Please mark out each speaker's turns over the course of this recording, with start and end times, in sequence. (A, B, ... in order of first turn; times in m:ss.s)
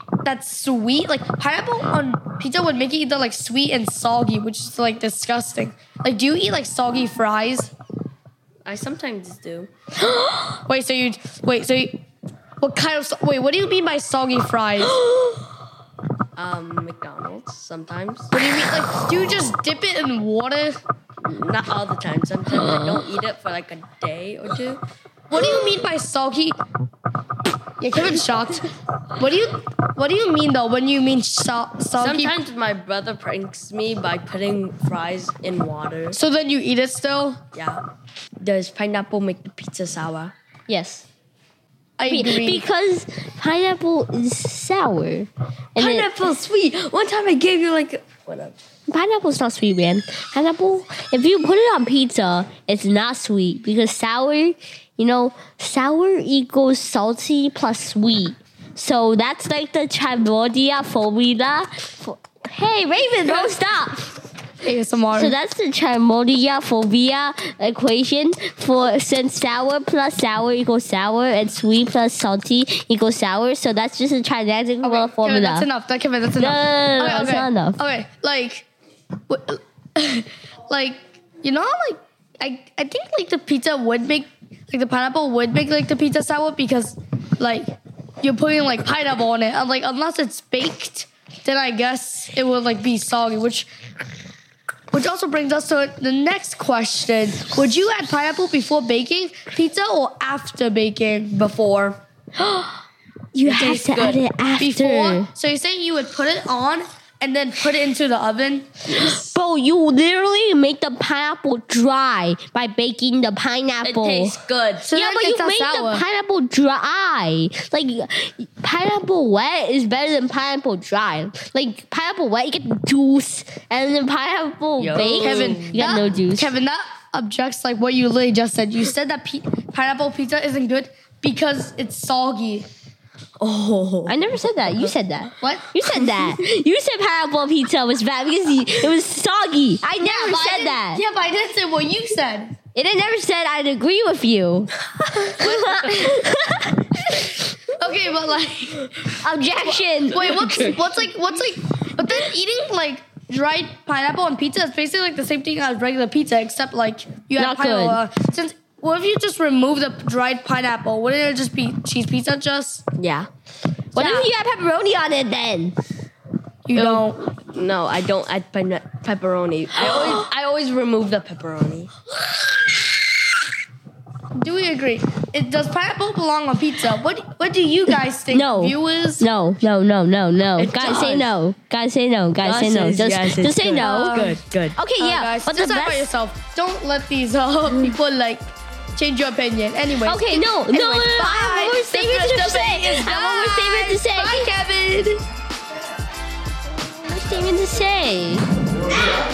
0:00.2-0:07.7 A
0:08.6-0:09.7 B
0:10.7-0:12.0 A
0:12.6-0:15.0 A
0:16.4-0:18.3 B
0:18.3-0:20.8 A
0:21.2-0:24.8 B
0:25.3-0:26.6 A
0:27.8-0:28.6 A
0:29.2-0:32.4 A
0:32.0-0:36.2 B
0:36.1-0:37.4 A
0:37.5-0:37.8 B
0:38.4-0:40.3 B
0:40.7-0:41.0 C
0:42.0-0:42.6 A
0:42.1-0:46.2 C
0:45.8-0:48.6 B
0:48.9-1:04.1 C
1:04.6-1:05.4 A
1:05.1-1:15.7 C
1:14.8-1:18.7 A
1:16.4-1:17.8 C
1:19.3-1:27.7 A
1:28.2-1:33.7 A
1:34.9-1:42.0 A
1:42.4-1:42.8 C
1:43.4-1:45.3 C
1:43.4-1:49.2 A
1:48.9-2:06.5 C
1:53.8-1:54.9 B
1:54.8-1:56.0 A
2:04.8-2:05.8 B
2:04.9-2:12.7 A
2:13.4-2:15.0 B
2:14.0-2:21.0 C
2:15.4-2:15.7 A
2:20.0-2:22.5 A
2:22.7-2:24.7 C
2:25.2-2:27.4 C
2:25.4-2:26.1 A
2:27.8-2:28.9 A
2:29.2-2:30.6 C
2:29.7-2:42.8 A
2:37.4-2:38.0 C
2:43.0-2:43.3 C
2:43.9-2:45.8 C
2:44.0-2:44.3 A
2:46.7-2:47.2 A
2:46.7-2:51.9 B
2:49.8-2:50.2 C
2:54.4-2:59.3 A
2:58.3-3:04.2 C
3:00.6-3:01.3 B
3:02.4-3:04.8 B
3:03.8-3:15.2 A
3:04.7-3:06.1 C
3:07.7-3:08.0 C
3:10.0-3:14.5 C
3:17.0-3:18.5 C